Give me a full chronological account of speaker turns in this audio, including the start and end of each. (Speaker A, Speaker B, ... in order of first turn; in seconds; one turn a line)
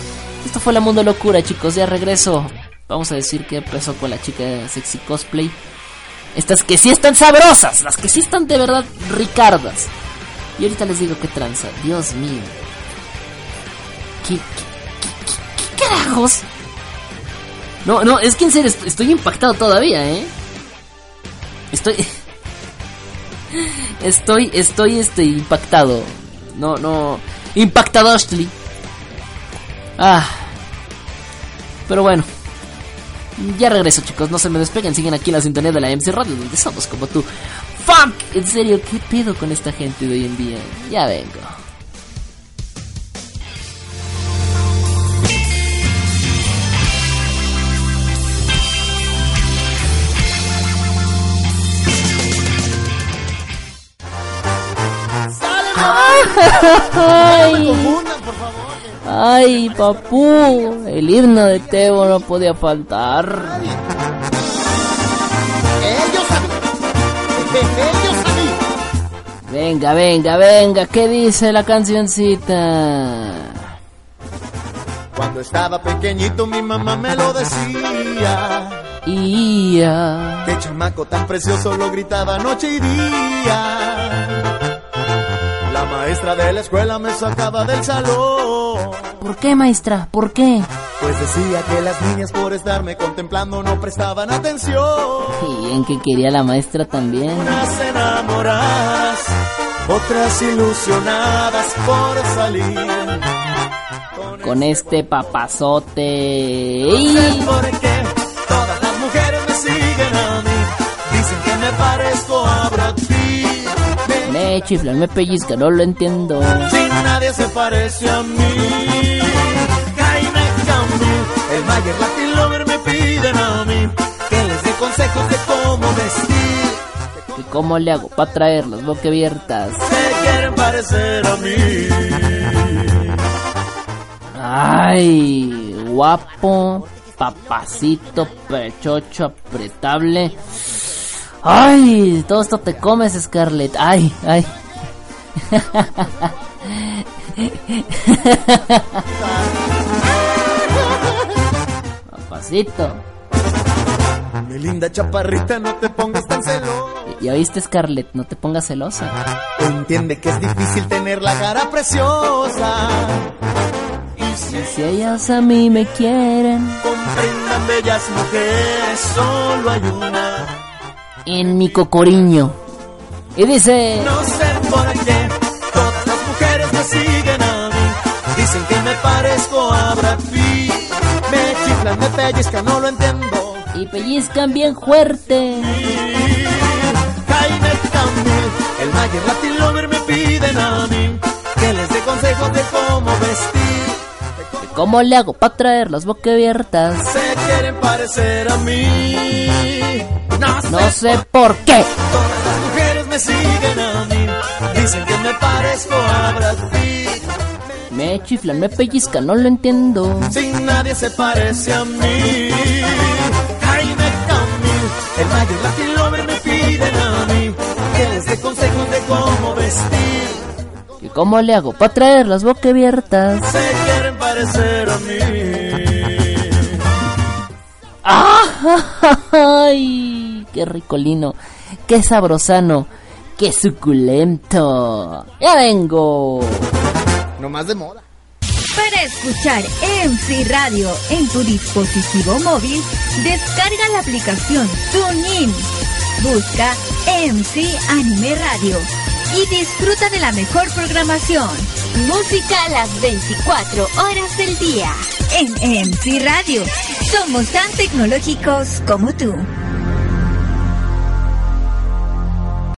Speaker A: 0.4-5.5
Speaker A: 6.3-9.9
Speaker A: 10.6-12.6
Speaker A: 14.2-16.4
Speaker A: 17.8-20.3
Speaker A: 21.7-22.1
Speaker A: 23.5-28.5
Speaker A: 30.0-30.5
Speaker A: 31.9-32.3
Speaker A: 33.4-41.5
Speaker B: 55.3-58.9
Speaker A: 55.8-58.0
Speaker A: 59.0-63.6
Speaker B: 59.7-60.5
Speaker B: 65.8-66.5
Speaker B: 67.3-68.6
Speaker A: 69.5-73.6
Speaker B: 75.1-78.8
Speaker A: 79.0-80.5
Speaker B: 80.4-84.4
Speaker B: 85.7-89.1
Speaker A: 89.2-90.7
Speaker B: 91.0-95.4
Speaker A: 95.3-97.6
Speaker B: 97.3-99.3
Speaker B: 99.8-103.2
Speaker B: 104.1-105.1
Speaker A: 104.4-107.5
Speaker B: 106.9-114.4
Speaker A: 114.2-116.7
Speaker B: 116.7-126.8
Speaker A: 127.3-129.8
Speaker B: 129.8-132.9
Speaker A: 134.3-140.3
Speaker A: 141.4-144.5
Speaker A: 145.5-149.0
Speaker B: 149.1-149.4
Speaker A: 152.1-153.0
Speaker B: 154.4-157.1
Speaker A: 157.1-159.2
Speaker B: 159.6-163.3
Speaker B: 164.2-164.8
Speaker A: 164.5-166.8
Speaker B: 166.8-170.5
Speaker A: 171.2-172.6
Speaker A: 173.3-174.1
Speaker B: 173.9-183.6
Speaker A: 183.7-185.9
Speaker B: 185.6-194.0
Speaker A: 194.6-197.1
Speaker B: 197.0-201.2
Speaker A: 200.7-201.9
Speaker B: 202.0-207.3
Speaker A: 207.9-210.4
Speaker B: 210.3-220.5
Speaker A: 221.0-223.5
Speaker B: 223.4-226.7
Speaker A: 228.0-231.4
Speaker A: 231.9-236.7
Speaker B: 237.4-238.0
Speaker C: 238.7-259.5